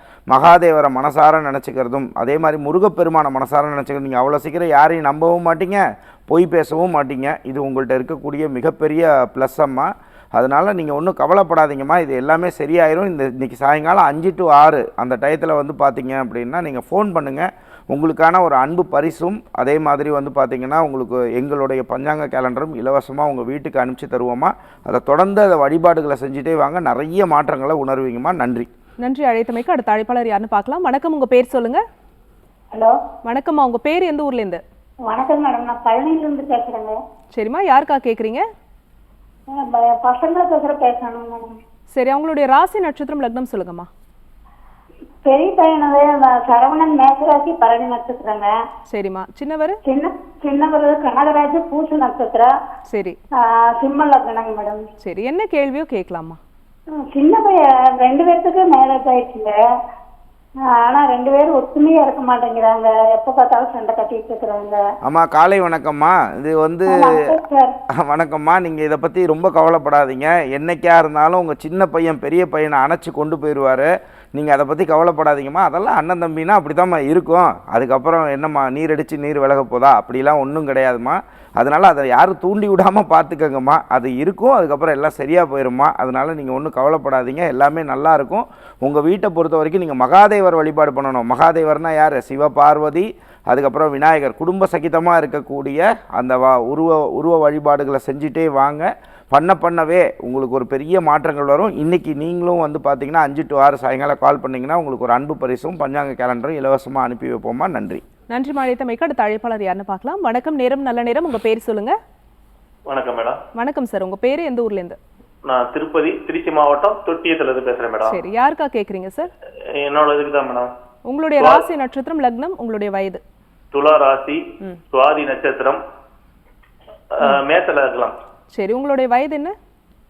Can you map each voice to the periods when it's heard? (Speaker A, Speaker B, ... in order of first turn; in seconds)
Speaker A: 0.3-28.7, 65.0-67.4, 67.9-108.0
Speaker B: 29.0-31.8, 33.2-34.6, 37.3-38.4, 41.9-43.9, 48.9-49.8, 52.9-53.2, 55.0-56.4, 108.3-112.0, 113.5-115.0, 118.0-119.3, 121.0-123.2, 128.5-129.6
Speaker C: 35.1-37.0, 39.5-41.5, 45.2-48.5, 49.9-52.5, 53.4-54.8, 57.0-59.5, 60.7-64.8, 66.9-67.7
Speaker D: 112.9-113.4, 115.5-118.1, 119.7-120.7, 123.7-125.8, 127.2-128.1